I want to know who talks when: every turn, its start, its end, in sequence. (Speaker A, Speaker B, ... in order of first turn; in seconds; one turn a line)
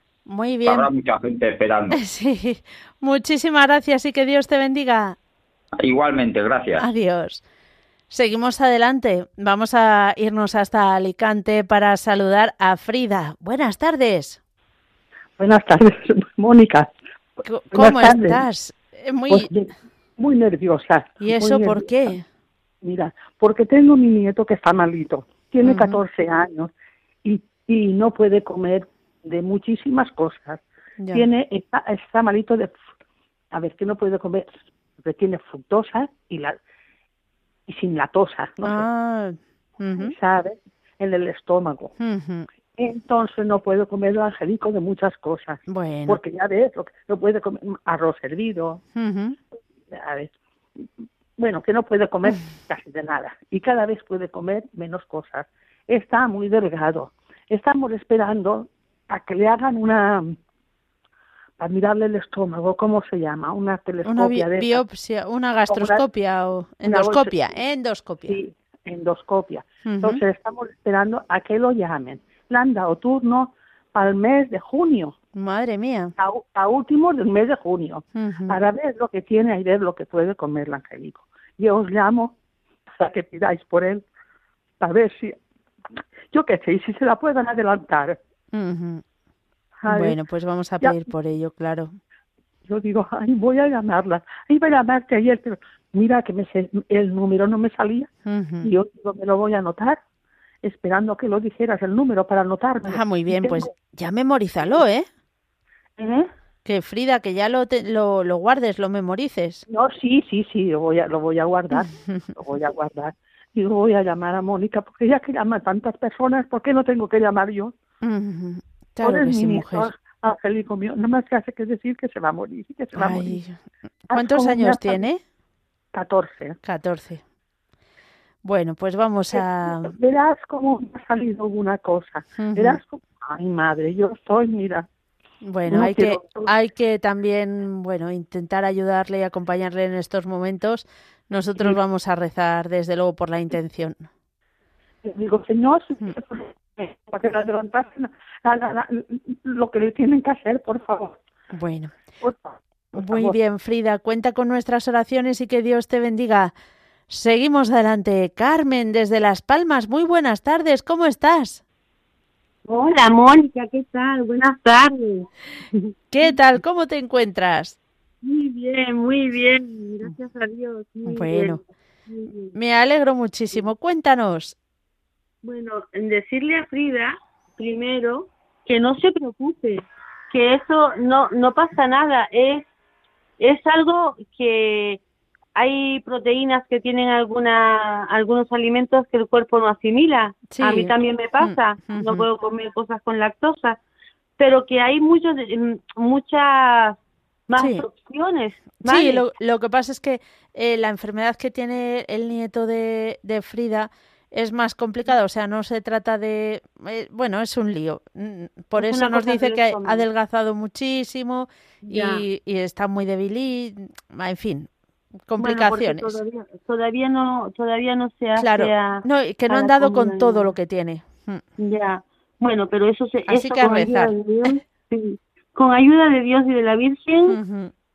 Speaker A: 0.3-0.9
Speaker B: 0.7-2.0
Speaker A: 1.9-5.2
Speaker B: 5.8-6.9
Speaker A: 6.8-7.4
Speaker A: 8.1-14.4
Speaker C: 15.4-16.9
Speaker A: 17.5-19.5
Speaker C: 17.7-18.4
Speaker C: 19.3-21.9
Speaker A: 21.2-22.2
Speaker C: 22.8-26.7
Speaker A: 25.6-26.0
Speaker C: 27.2-30.6
Speaker A: 31.0-31.3
Speaker C: 31.1-32.8
Speaker C: 33.5-36.6
Speaker C: 37.7-38.9
Speaker A: 38.6-40.1
Speaker C: 40.0-41.9
Speaker A: 42.0-42.5
Speaker C: 42.8-48.8
Speaker A: 45.7-46.2
Speaker A: 49.0-49.4
Speaker C: 49.9-50.3
Speaker C: 51.4-60.4
Speaker C: 61.6-64.8
Speaker A: 64.0-68.4
Speaker C: 65.7-66.0
Speaker C: 66.8-67.3
Speaker C: 68.3-75.2
Speaker A: 69.8-70.2
Speaker A: 75.3-76.1
Speaker C: 76.2-82.3
Speaker A: 78.2-78.6
Speaker C: 83.0-84.1
Speaker C: 84.8-85.4
Speaker C: 86.3-88.2
Speaker A: 88.5-89.0
Speaker C: 89.8-90.2
Speaker A: 89.9-92.0
Speaker C: 92.7-98.1
Speaker A: 98.3-98.7
Speaker C: 98.6-100.0
Speaker C: 100.6-103.7
Speaker A: 102.8-105.1
Speaker D: 106.0-106.2
Speaker A: 106.7-109.7
Speaker C: 109.7-117.7
Speaker A: 111.9-112.3
Speaker A: 118.0-119.9
Speaker C: 119.0-123.4
Speaker A: 123.0-123.6
Speaker A: 124.1-125.2
Speaker C: 124.1-125.0
Speaker C: 125.9-126.6
Speaker A: 126.6-127.2
Speaker A: 128.4-129.9
Speaker C: 129.3-134.9
Speaker A: 132.4-132.8
Speaker A: 135.4-144.1
Speaker C: 135.7-136.5
Speaker C: 145.0-151.2
Speaker A: 151.5-151.9
Speaker C: 152.2-153.3
Speaker A: 152.9-156.5
Speaker A: 157.1-161.6
Speaker D: 162.7-165.9
Speaker A: 166.1-167.8
Speaker D: 168.2-172.6
Speaker A: 171.1-171.6
Speaker A: 172.5-174.6
Speaker D: 175.4-182.7
Speaker D: 183.4-185.0
Speaker D: 185.6-193.8
Speaker A: 190.5-192.3
Speaker D: 194.4-197.0
Speaker D: 197.5-199.2
Speaker A: 197.6-197.8
Speaker A: 198.8-214.7
Speaker D: 208.8-210.1
Speaker D: 211.8-212.2
Speaker A: 215.3-216.2
Speaker D: 215.4-220.5
Speaker A: 218.4-221.4
Speaker D: 221.6-227.4
Speaker A: 223.3-224.1
Speaker A: 227.3-227.7